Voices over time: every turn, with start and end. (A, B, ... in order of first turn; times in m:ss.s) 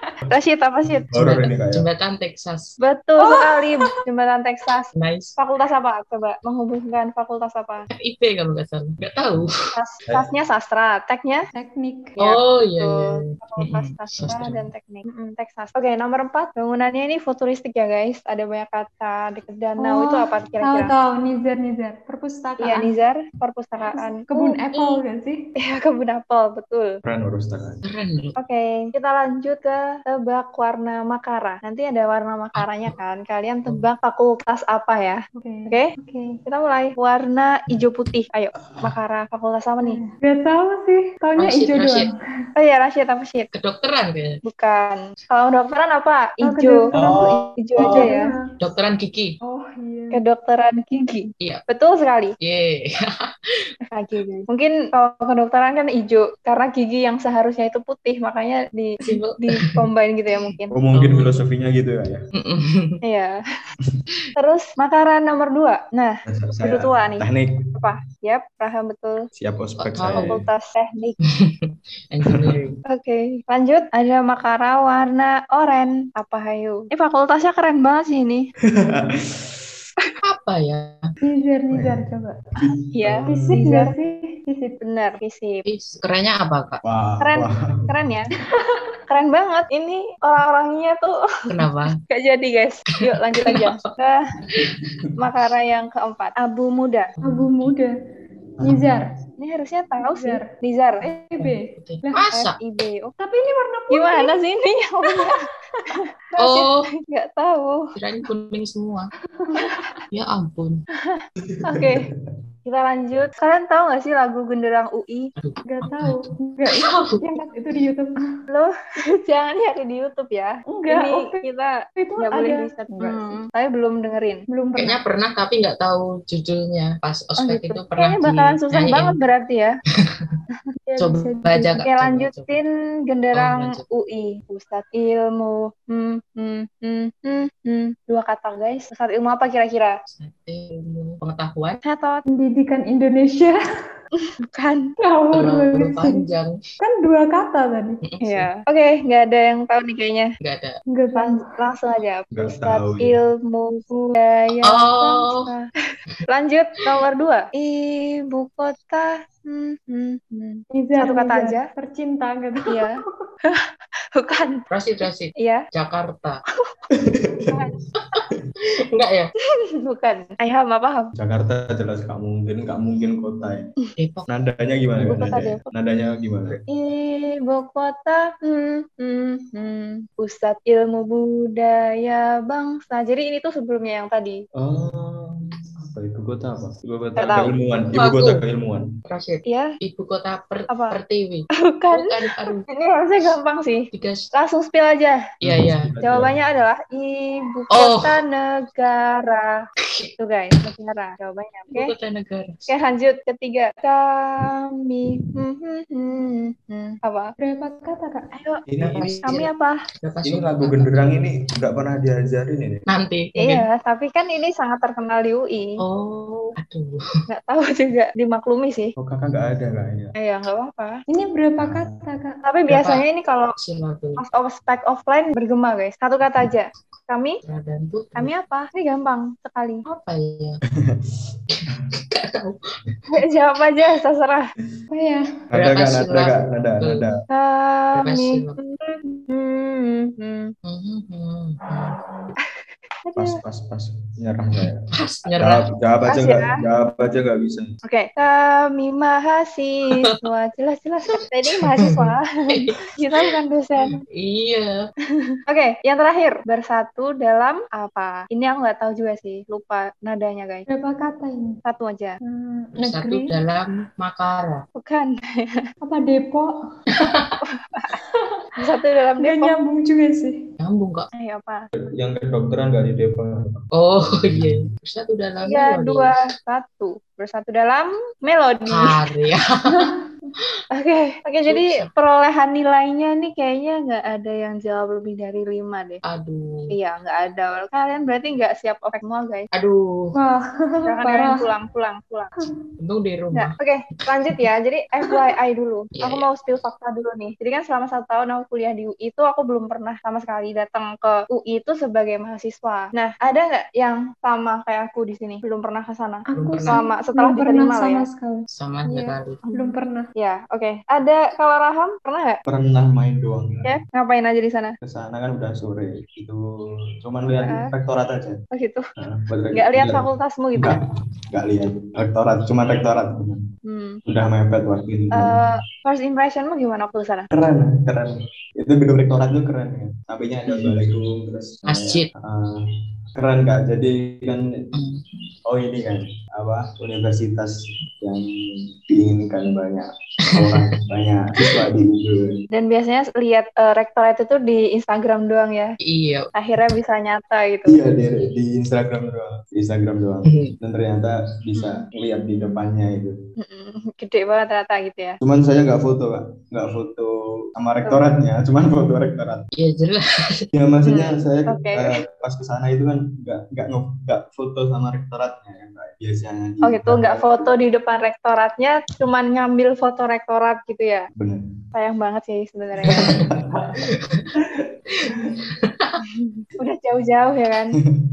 0:00.3-0:01.1 A
0:01.1-0:01.9 B
0:01.2-0:02.8 C
0:02.8-0:07.9 A
0:03.2-0:03.6 D
0:05.0-0:05.4 C
0:07.9-0:09.5 C
0:09.7-0:11.5 A
0:11.5-0:12.2 D
0:12.2-0:20.9 A
0:12.2-0:14.6 C
0:19.8-0:22.9 D
0:22.6-0:25.0 A
0:24.0-0:25.4 D
0:25.6-0:27.0 A
0:27.0-0:27.8 B
0:27.8-0:28.4 C
0:28.4-0:35.9 A
0:32.6-0:32.9 C
0:35.4-0:36.4 D
0:36.5-0:40.0 A
0:39.8-0:42.2 D
0:41.4-0:42.1 C
0:42.6-0:43.5 A
0:43.5-0:44.4 C
0:44.4-0:48.3 A
0:46.4-0:47.1 D
0:46.9-0:48.2 B
0:47.8-0:48.5 D
0:48.6-0:49.4 C
0:49.4-0:50.2 D
0:50.1-0:52.4 A
0:52.4-0:53.7 C
0:53.9-1:00.8 A
0:59.0-0:59.7 C
1:00.7-1:02.2 B
1:01.0-1:01.4 C
1:02.4-1:03.0 C
1:03.0-1:03.4 A
1:04.4-1:07.3 A
1:06.3-1:07.6 B
1:07.8-1:09.3 A
1:09.4-1:10.4 B
1:09.8-1:10.4 C
1:10.3-1:11.2 A
1:11.3-1:12.8 C
1:12.3-1:12.6 B
1:12.9-1:18.5 A
1:18.8-1:19.6 B
1:20.2-1:21.0 C
1:21.2-1:22.4 D
1:21.7-1:22.0 B
1:22.6-1:23.5 B
1:22.9-1:23.9 A
1:23.3-1:24.8 D
1:24.8-1:25.6 A
1:25.7-1:26.8 C
1:26.8-1:28.0 B
1:27.2-1:28.3 A
1:29.1-1:31.2 A
1:31.5-1:32.0 C
1:32.1-1:34.3 A
1:33.4-1:33.7 C
1:35.2-1:37.1 A
1:37.2-1:37.7 C
1:37.2-1:38.0 D
1:38.6-1:38.9 B
1:38.6-1:39.1 D
1:39.4-1:41.0 A
1:40.0-1:40.5 D
1:41.0-1:42.3 D
1:41.4-1:42.6 C
1:42.3-1:43.1 A
1:43.2-1:44.4 D
1:43.9-1:45.4 A
1:45.2-1:45.9 D
1:45.9-1:47.9 A
1:46.4-1:46.9 C
1:48.0-1:49.1 C
1:49.4-1:50.0 D
1:50.1-1:50.8 C
1:51.0-1:52.0 A
1:51.4-1:52.0 B
1:52.7-1:55.3 A
1:55.4-1:57.2 C
1:55.7-1:58.1 D
1:58.5-2:04.4 A
2:00.7-2:01.4 D
2:02.0-2:03.4 D
2:04.5-2:05.0 D
2:04.8-2:09.2 C
2:07.4-2:09.8 A
2:10.1-2:10.4 C
2:11.0-2:11.8 D
2:11.0-2:12.5 C
2:11.8-2:20.0 A
2:13.3-2:13.8 C
2:20.1-2:21.8 C
2:21.8-2:22.2 A
2:22.3-2:23.6 D
2:24.2-2:24.9 A
2:25.0-2:26.2 D
2:25.3-2:26.6 C
2:26.8-2:28.0 D
2:28.0-2:28.5 C
2:28.2-2:30.3 A
2:30.4-2:30.8 C
2:30.9-2:31.5 D
2:31.2-2:35.7 A
2:32.3-2:33.2 B
2:34.6-2:35.5 C
2:36.3-2:41.7 A
2:40.7-2:42.9 D
2:42.7-2:44.6 A
2:44.7-2:46.4 C
2:45.4-2:45.6 A
2:46.9-2:48.4 B
2:48.0-2:49.3 C
2:49.8-2:51.1 A
2:51.2-2:53.7 B
2:54.0-2:54.3 C
2:54.3-2:56.6 B
2:55.0-2:55.6 A
2:56.7-3:04.4 A
3:04.6-3:08.9 B
3:07.2-3:07.5 A
3:08.0-3:08.4 C
3:09.1-3:12.7 C
3:09.5-3:09.8 A
3:10.7-3:11.0 A
3:11.7-3:15.2 A
3:13.9-3:14.3 C
3:15.4-3:15.9 C
3:15.4-3:16.4 B
3:16.0-3:19.7 A
3:17.7-3:18.2 C
3:19.9-3:20.1 C
3:20.2-3:21.9 A
3:21.7-3:22.7 C
3:22.7-3:27.3 A
3:27.4-3:28.3 D
3:28.4-3:28.6 A
3:28.7-3:29.3 B
3:28.8-3:29.5 C
3:29.2-3:29.8 A
3:30.0-3:31.1 C
3:30.2-3:32.8 B
3:32.9-3:33.7 C
3:33.4-3:35.8 A
3:35.8-3:37.0 C
3:37.3-3:38.9 A
3:39.0-3:40.1 B
3:40.2-3:41.0 A
3:41.1-3:42.4 D
3:41.6-3:42.0 B
3:42.4-3:43.6 A
3:42.7-3:43.0 C
3:43.6-3:44.2 C
3:44.2-3:47.4 A
3:47.4-3:48.3 C
3:48.2-3:49.8 A
3:49.9-3:50.6 C
3:51.5-3:52.6 C
3:53.1-3:54.5 A
3:54.9-3:55.2 D
3:55.5-3:57.2 B
3:55.6-3:57.1 C
3:57.3-4:00.5 A
3:58.0-3:58.6 C
4:00.6-4:02.0 C
4:03.2-4:04.8 B
4:04.6-4:05.6 C
4:05.4-4:07.8 B
4:06.1-4:06.6 A
4:07.8-4:14.0 A
4:11.5-4:13.3 C
4:14.0-4:14.8 C
4:15.1-4:20.7 A
4:20.7-4:21.6 D
4:21.7-4:22.2 A
4:22.2-4:23.3 D
4:22.8-4:24.7 C
4:24.8-4:25.7 A
4:25.8-4:26.5 D
4:26.9-4:27.4 C
4:27.5-4:28.0 A
4:28.1-4:28.5 D
4:28.6-4:29.5 A
4:29.2-4:30.4 D
4:30.6-4:31.1 C
4:31.2-4:31.7 A
4:31.7-4:34.7 B
4:33.7-4:36.2 C
4:35.4-4:39.0 A
4:38.7-4:39.9 C
4:39.7-4:40.0 D
4:40.7-4:46.0 A
4:41.4-4:41.9 C
4:46.1-4:46.7 C
4:46.7-4:49.5 A
4:49.5-4:50.1 C
4:50.2-4:51.5 D
4:50.9-4:52.4 A
4:52.8-4:53.5 C
4:53.3-5:08.1 A
4:56.0-4:56.3 C
5:06.3-5:10.1 D
5:06.4-5:06.8 C
5:08.5-5:09.4 C
5:09.4-5:12.4 A
5:12.5-5:13.8 B
5:13.6-5:14.8 A
5:14.8-5:16.4 B
5:17.0-5:18.4 B
5:17.4-5:17.7 A
5:18.5-5:18.8 A
5:19.0-5:20.0 B
5:19.5-5:20.8 A
5:20.6-5:23.4 B
5:23.6-5:24.0 A
5:24.1-5:25.4 B
5:25.1-5:27.3 A
5:27.3-5:32.6 B
5:30.5-5:30.8 C
5:31.7-5:32.1 C
5:33.2-5:34.5 B
5:34.7-5:35.0 C
5:35.5-5:38.3 B
5:38.9-5:42.4 B
5:40.3-5:40.7 C
5:42.5-5:45.8 A
5:45.9-5:46.3 C
5:46.4-5:47.8 A
5:47.7-5:53.2 B
5:51.6-5:51.9 A
5:53.4-5:55.2 A
5:55.2-5:59.5 B
5:59.6-6:00.5 C
6:00.5-6:07.6 B
6:00.8-6:02.0 A
6:06.6-6:11.1 A
6:11.2-6:11.5 B
6:11.7-6:13.2 A
6:12.8-6:13.8 B
6:12.9-6:13.2 C
6:13.9-6:14.3 C
6:14.4-6:15.4 B
6:14.9-6:16.0 C
6:16.0-6:17.8 A